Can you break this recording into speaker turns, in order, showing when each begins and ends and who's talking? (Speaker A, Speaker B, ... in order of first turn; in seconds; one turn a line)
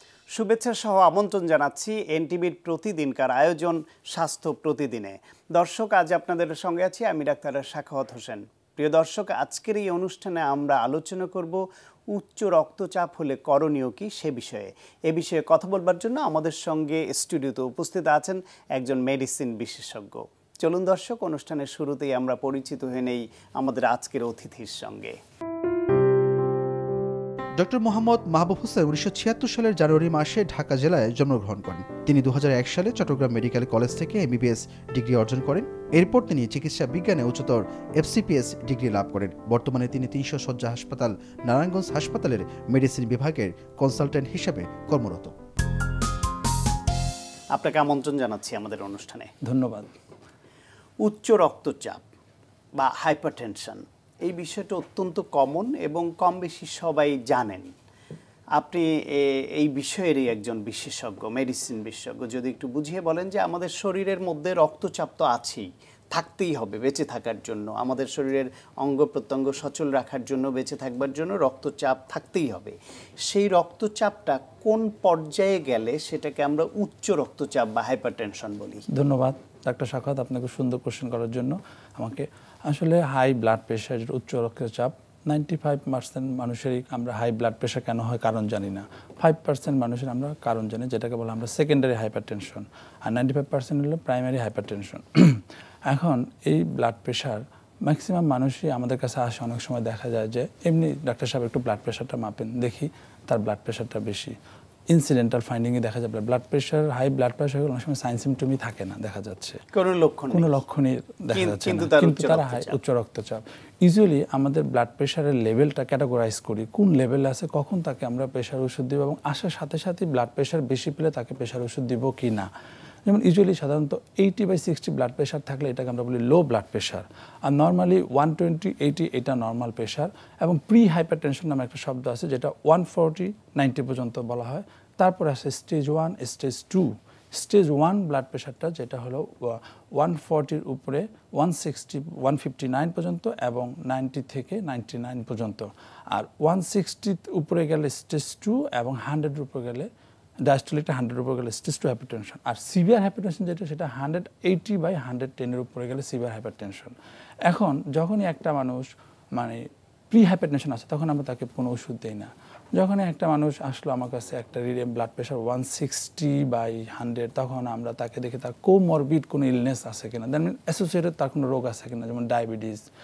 Speaker A: 0.3-25.1
Speaker B: 27.5-45.3
Speaker A: 47.5-49.3
Speaker C: 49.4-49.9
Speaker A: 51.0-52.0
Speaker A: 52.8-57.7
Speaker A: 58.5-78.8
Speaker C: 78.9-104.3
Speaker C: 104.9-109.6
Speaker A: 109.7-110.5
Speaker C: 110.3-122.5
Speaker A: 111.3-112.8
Speaker C: 123.0-149.9
Speaker C: 150.4-156.9
Speaker C: 157.4-172.8